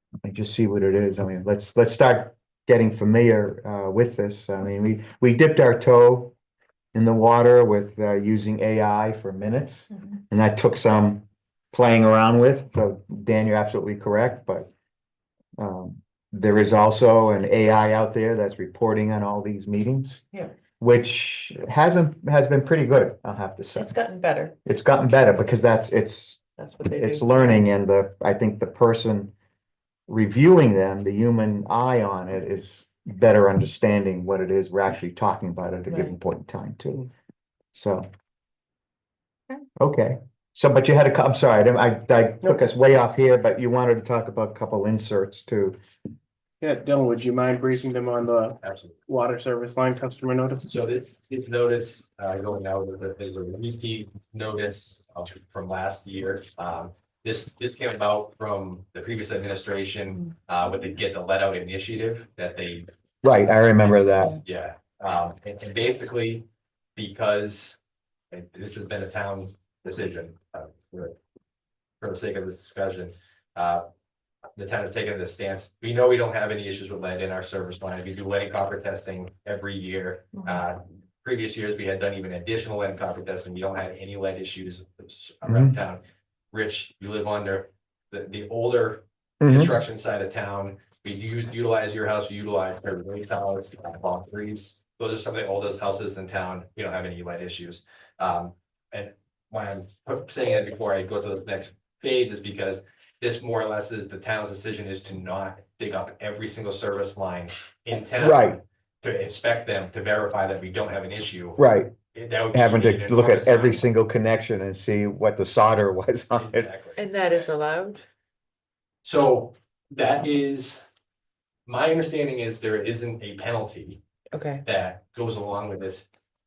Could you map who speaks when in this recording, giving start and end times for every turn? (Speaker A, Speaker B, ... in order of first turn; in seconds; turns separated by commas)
Speaker A: 0.2-6.3, Speaker A: 6.9-14.7, Speaker A: 15.6-20.2, Speaker A: 20.8-23.9, Speaker B: 23.8-24.5, Speaker A: 24.6-29.3, Speaker B: 26.6-27.6, Speaker A: 30.1-37.1, Speaker A: 37.7-38.1, Speaker A: 39.8-45.8, Speaker C: 46.6-50.7, Speaker D: 48.6-49.0, Speaker D: 50.7-62.9, Speaker A: 63.2-64.4, Speaker D: 64.4-67.8, Speaker D: 68.3-71.2, Speaker D: 72.0-73.8, Speaker D: 74.5-111.6, Speaker A: 85.4-85.8, Speaker A: 89.4-89.7, Speaker A: 108.2-108.6, Speaker A: 111.6-111.9, Speaker D: 112.1-113.8, Speaker A: 112.5-116.7, Speaker D: 116.3-117.1, Speaker B: 117.0-118.0, Speaker D: 119.0-120.8, Speaker D: 121.7-124.0, Speaker B: 124.3-124.6, Speaker D: 124.6-126.0